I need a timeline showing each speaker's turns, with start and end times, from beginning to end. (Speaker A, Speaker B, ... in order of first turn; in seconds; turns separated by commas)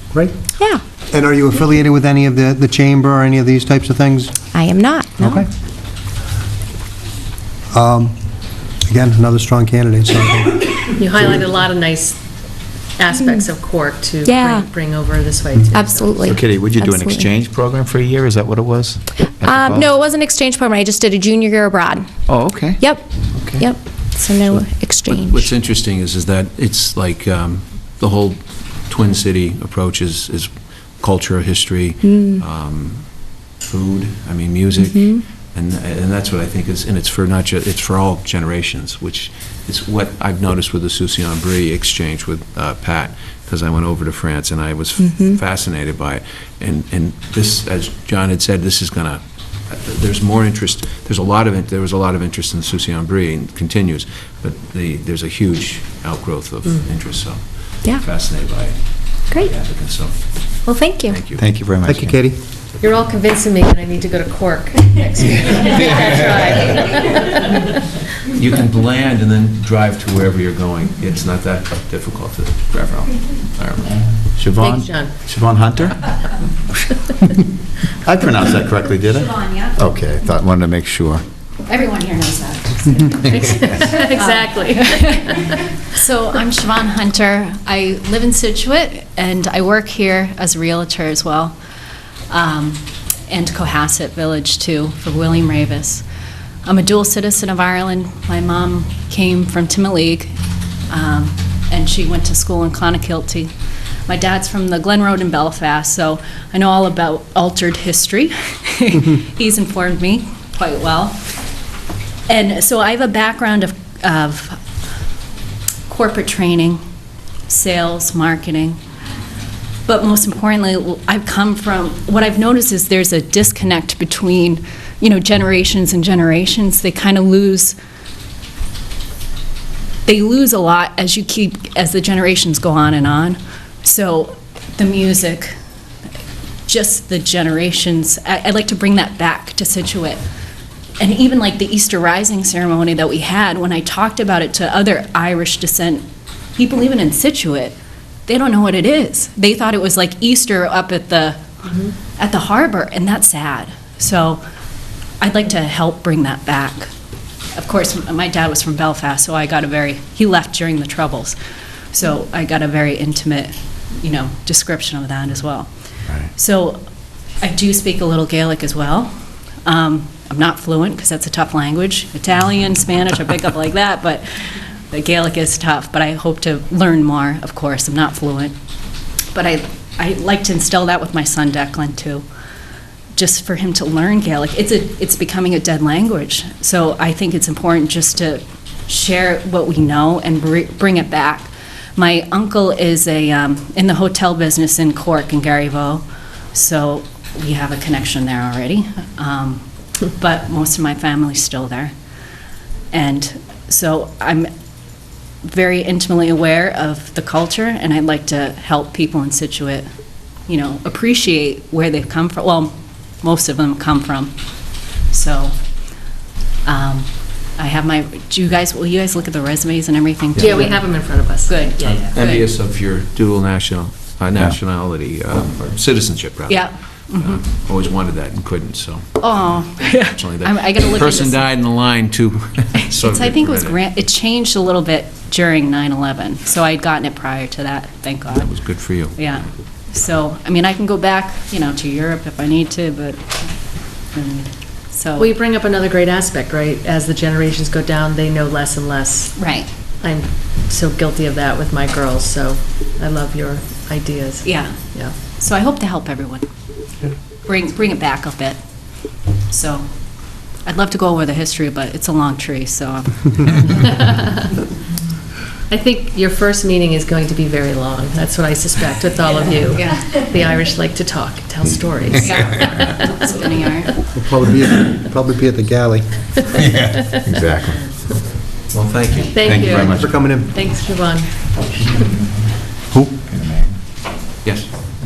Speaker A: 1.1-4.3, Speaker B: 4.5-5.4, Speaker A: 5.2-5.5, Speaker A: 7.7-8.1, Speaker A: 8.8-10.7, Speaker C: 11.0-12.2, Speaker C: 13.0-16.1, Speaker B: 14.2-14.6, Speaker B: 15.7-17.3, Speaker D: 16.2-19.9, Speaker B: 19.4-22.0, Speaker D: 22.3-22.8, Speaker B: 22.8-25.5, Speaker D: 23.4-23.6, Speaker E: 24.5-61.4, Speaker B: 32.0-32.4, Speaker B: 34.8-35.2, Speaker B: 45.0-45.4, Speaker B: 60.6-61.2, Speaker D: 61.4-62.2, Speaker A: 61.9-62.4, Speaker C: 62.8-67.7, Speaker E: 68.3-74.0, Speaker D: 74.3-76.1, Speaker C: 74.6-75.1, Speaker D: 78.0-81.2, Speaker F: 79.1-79.8, Speaker F: 81.7-91.5, Speaker C: 83.5-85.5, Speaker F: 92.3-96.0, Speaker F: 96.6-100.3, Speaker F: 100.9-103.5, Speaker F: 104.1-111.2, Speaker F: 112.3-114.6, Speaker F: 115.9-116.8, Speaker F: 117.5-118.8, Speaker F: 119.8-127.8, Speaker F: 130.1-135.6, Speaker F: 136.7-140.2, Speaker F: 141.0-147.8, Speaker F: 148.3-151.4, Speaker C: 151.6-151.9, Speaker F: 152.2-154.4, Speaker F: 155.2-156.9, Speaker F: 157.6-161.3, Speaker F: 161.9-165.7, Speaker F: 166.3-166.8, Speaker F: 167.4-169.1, Speaker F: 169.6-178.5, Speaker F: 179.3-182.2, Speaker F: 183.1-201.9, Speaker F: 202.9-204.5, Speaker F: 205.4-209.9, Speaker F: 210.5-214.3, Speaker F: 215.1-215.6, Speaker F: 216.6-222.4, Speaker C: 220.3-222.2, Speaker E: 221.8-226.6, Speaker F: 226.5-227.4, Speaker E: 227.2-229.3, Speaker F: 229.2-231.5, Speaker E: 229.9-233.8, Speaker F: 232.8-238.5, Speaker E: 238.3-239.4, Speaker F: 239.2-243.5, Speaker F: 244.1-245.3, Speaker C: 245.2-249.3, Speaker F: 249.3-249.7, Speaker C: 250.0-255.1, Speaker F: 254.4-254.8, Speaker F: 255.3-256.4, Speaker F: 257.4-258.6, Speaker F: 259.5-259.9, Speaker F: 260.6-263.9, Speaker C: 263.8-264.4, Speaker C: 265.7-273.1, Speaker F: 269.7-270.1, Speaker F: 272.2-273.9, Speaker A: 274.1-276.3, Speaker D: 276.8-277.8, Speaker E: 278.7-279.8, Speaker C: 279.3-281.5, Speaker D: 279.4-280.2, Speaker A: 279.9-280.5, Speaker D: 282.9-283.7